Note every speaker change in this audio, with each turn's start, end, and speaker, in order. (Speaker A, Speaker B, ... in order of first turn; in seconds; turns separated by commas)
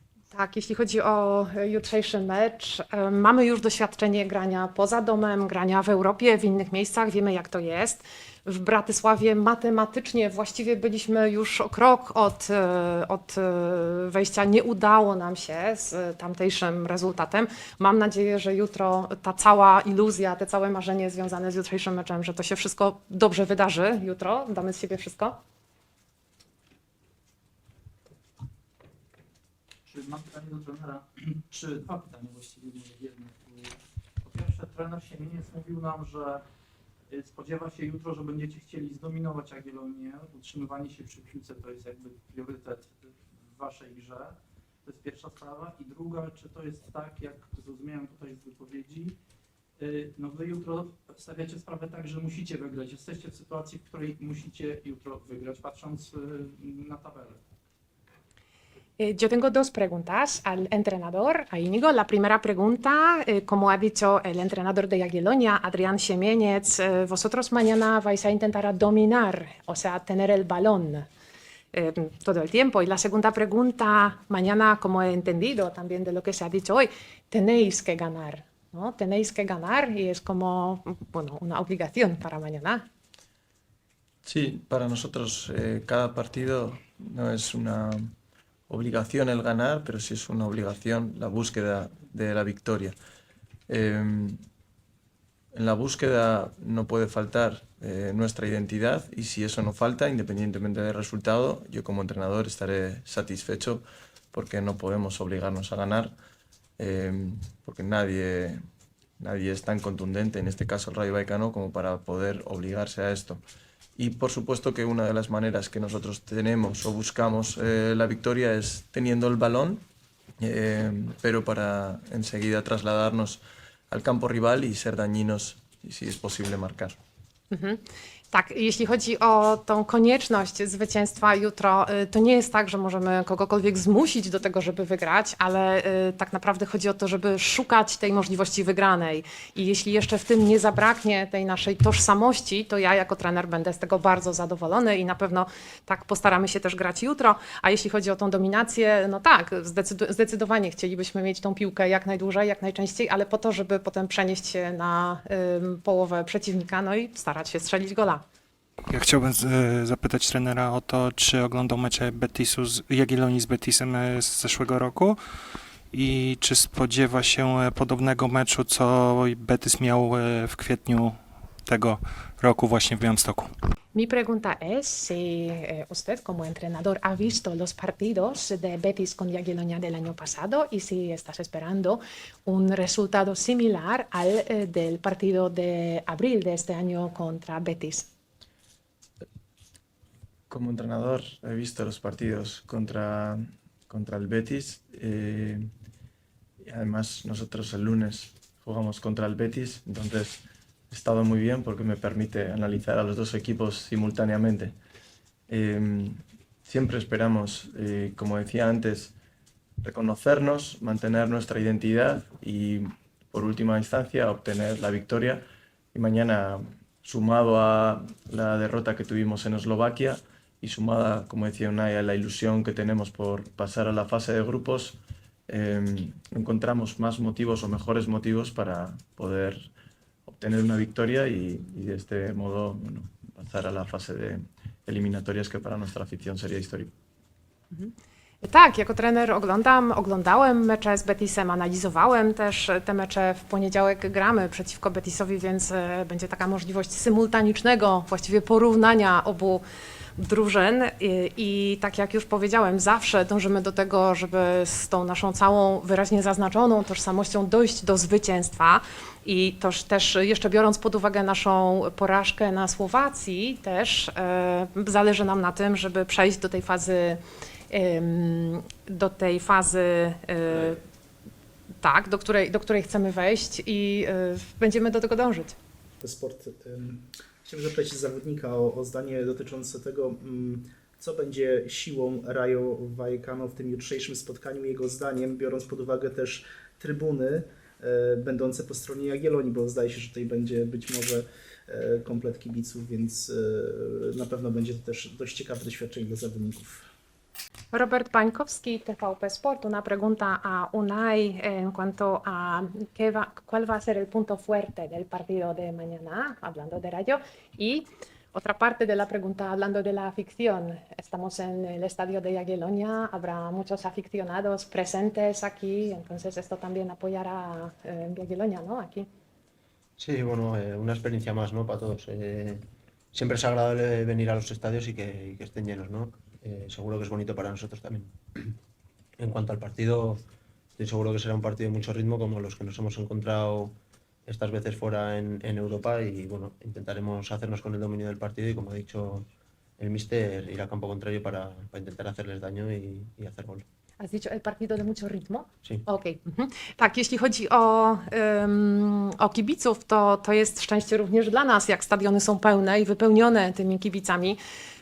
Speaker A: 0.3-25.4, Speaker B: 29.9-36.4, Speaker B: 37.1-49.2, Speaker B: 49.8-57.4, Speaker A: 59.0-71.1, Speaker A: 71.7-82.8, Speaker C: 84.2-88.1, Speaker C: 88.7-93.0, Speaker C: 93.7-94.4, Speaker C: 95.5-106.1, Speaker C: 106.8-108.6, Speaker C: 109.2-113.4, Speaker C: 114.0-119.8, Speaker C: 120.4-127.0, Speaker A: 127.5-127.8, Speaker A: 128.3-158.2, Speaker D: 158.9-165.2, Speaker D: 165.9-173.5, Speaker A: 173.9-188.1, Speaker C: 190.5-195.7, Speaker C: 196.6-204.8, Speaker C: 205.5-209.1, Speaker C: 209.8-229.7, Speaker C: 230.3-236.9, Speaker A: 237.7-249.6, Speaker A: 250.2-270.8, Speaker A: 271.8-275.6, Speaker E: 276.0-296.9, Speaker A: 297.7-319.1, Speaker F: 320.0-328.5, Speaker F: 329.2-330.2, Speaker F: 330.8-343.6, Speaker A: 344.0-354.4